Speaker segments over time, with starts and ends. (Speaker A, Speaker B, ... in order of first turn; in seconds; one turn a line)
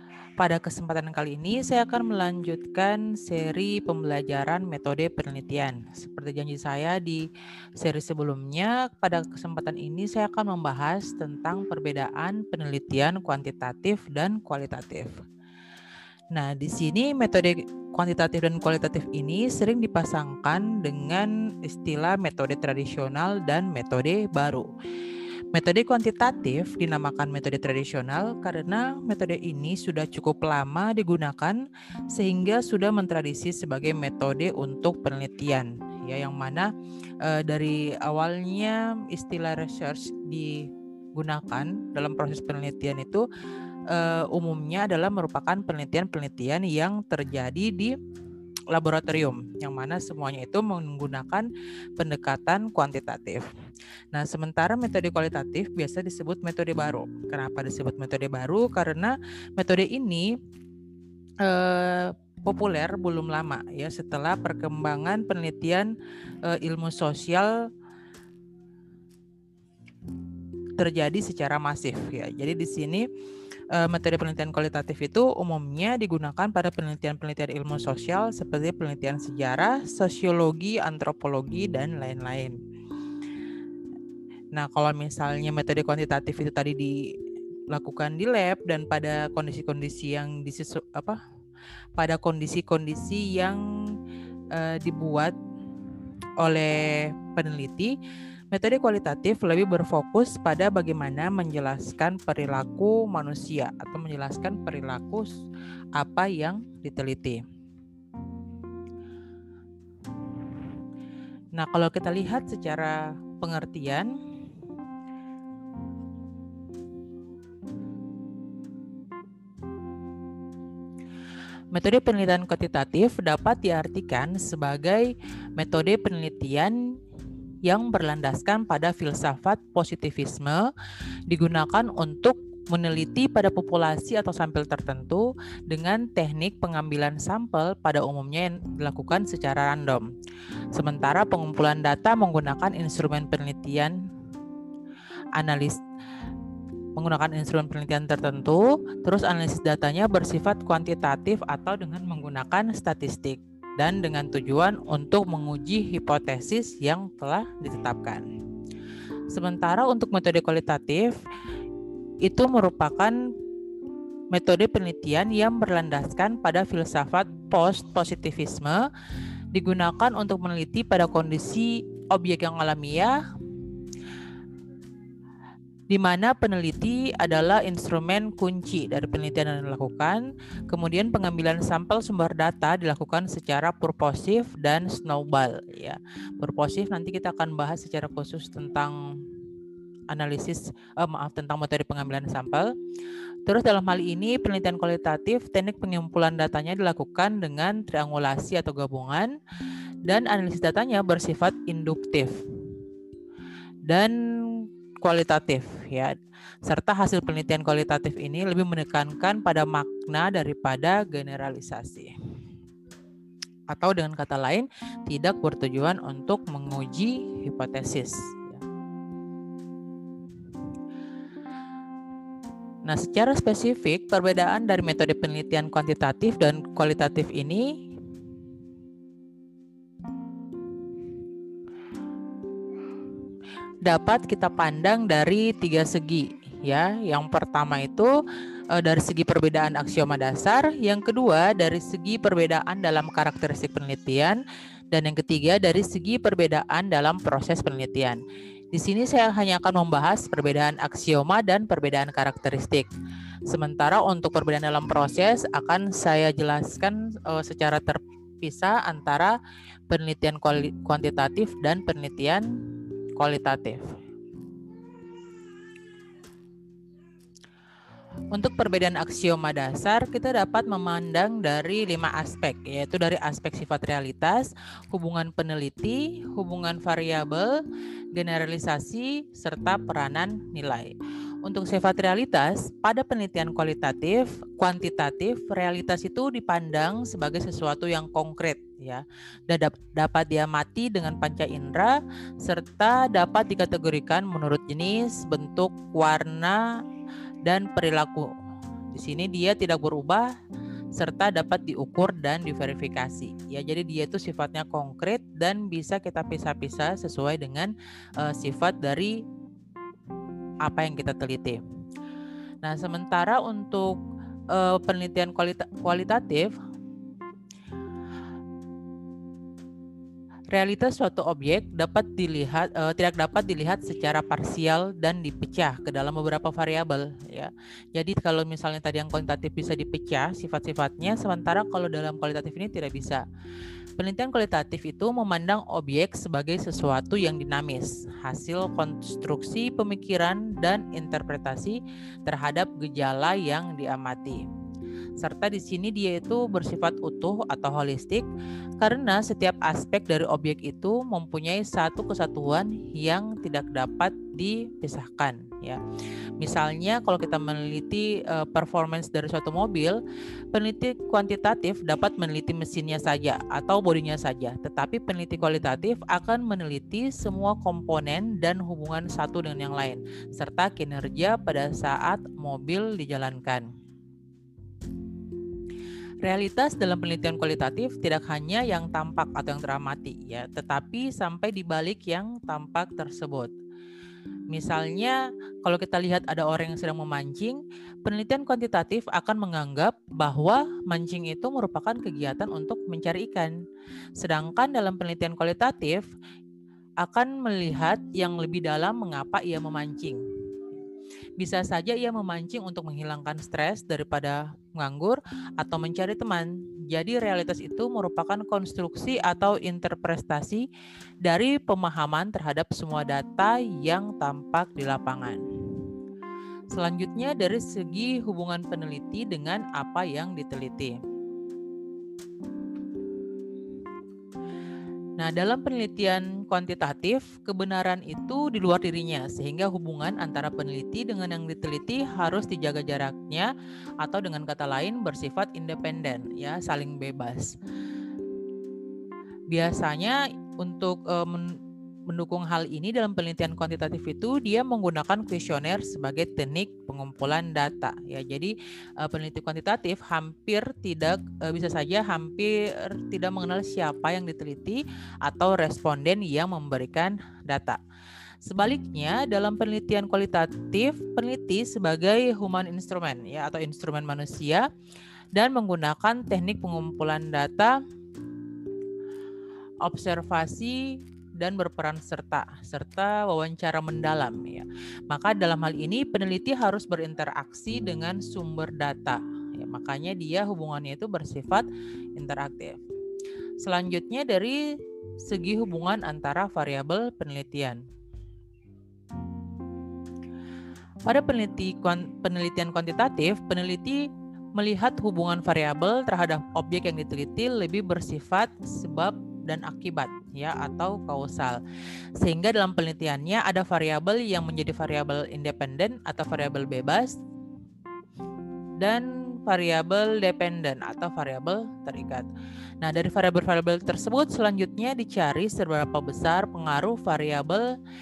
Speaker A: 0.4-7.2
Speaker A: 7.8-15.1
Speaker A: 16.3-24.7
Speaker A: 25.5-31.6
Speaker A: 32.1-36.7
Speaker A: 37.2-43.3
Speaker A: 43.9-48.0
Speaker A: 48.7-51.5
Speaker A: 52.0-53.5
Speaker A: 54.1-60.3
Speaker A: 61.4-65.9
Speaker A: 66.5-67.6
Speaker A: 70.8-73.0
Speaker A: 73.7-82.6
Speaker A: 84.5-87.0
Speaker A: 87.7-91.2
Speaker A: 92.0-93.6
Speaker A: 94.5-95.4
Speaker A: 96.4-98.0
Speaker A: 98.5-105.4
Speaker A: 106.0-107.4
Speaker A: 111.6-114.1
Speaker A: 121.7-126.8
Speaker A: 127.7-130.7
Speaker A: 131.3-140.1
Speaker A: 140.8-144.0
Speaker A: 145.4-145.8
Speaker A: 147.0-158.2
Speaker A: 159.3-161.2
Speaker A: 162.2-163.2
Speaker A: 164.3-168.9
Speaker A: 169.5-173.2
Speaker A: 175.9-189.0
Speaker A: 190.1-192.7
Speaker A: 193.5-199.3
Speaker A: 200.1-202.3
Speaker A: 203.9-212.1
Speaker A: 213.7-218.6
Speaker A: 222.9-227.7
Speaker A: 233.8-238.1
Speaker A: 238.7-244.4
Speaker A: 244.9-248.2
Speaker A: 248.7-252.9
Speaker A: 253.5-259.4
Speaker A: 259.9-262.5
Speaker A: 263.2-263.8
Speaker A: 268.3-277.6
Speaker A: 278.1-296.7
Speaker A: 297.4-298.3
Speaker A: 298.9-300.3
Speaker A: 300.9-309.2
Speaker A: 310.6-311.6
Speaker A: 312.6-314.0
Speaker A: 314.5-316.5
Speaker A: 320.5-333.2
Speaker A: 334.0-344.4
Speaker A: 345.2-348.3
Speaker A: 348.8-355.8
Speaker A: 356.4-360.0
Speaker A: 360.5-373.7
Speaker A: 376.2-383.5
Speaker A: 384.5-393.6
Speaker A: 394.2-396.0
Speaker A: 397.0-400.2
Speaker A: 401.4-410.7
Speaker A: 411.2-415.4
Speaker A: 416.7-421.0
Speaker A: 425.2-437.5
Speaker A: 439.5-441.6
Speaker A: 442.1-457.8
Speaker A: 458.4-464.7
Speaker A: 465.4-467.8
Speaker A: 469.8-482.8
Speaker A: 483.6-484.6
Speaker A: 485.2-487.8
Speaker A: 491.1-501.6
Speaker A: 502.2-507.2
Speaker A: 508.8-512.3
Speaker A: 512.8-517.7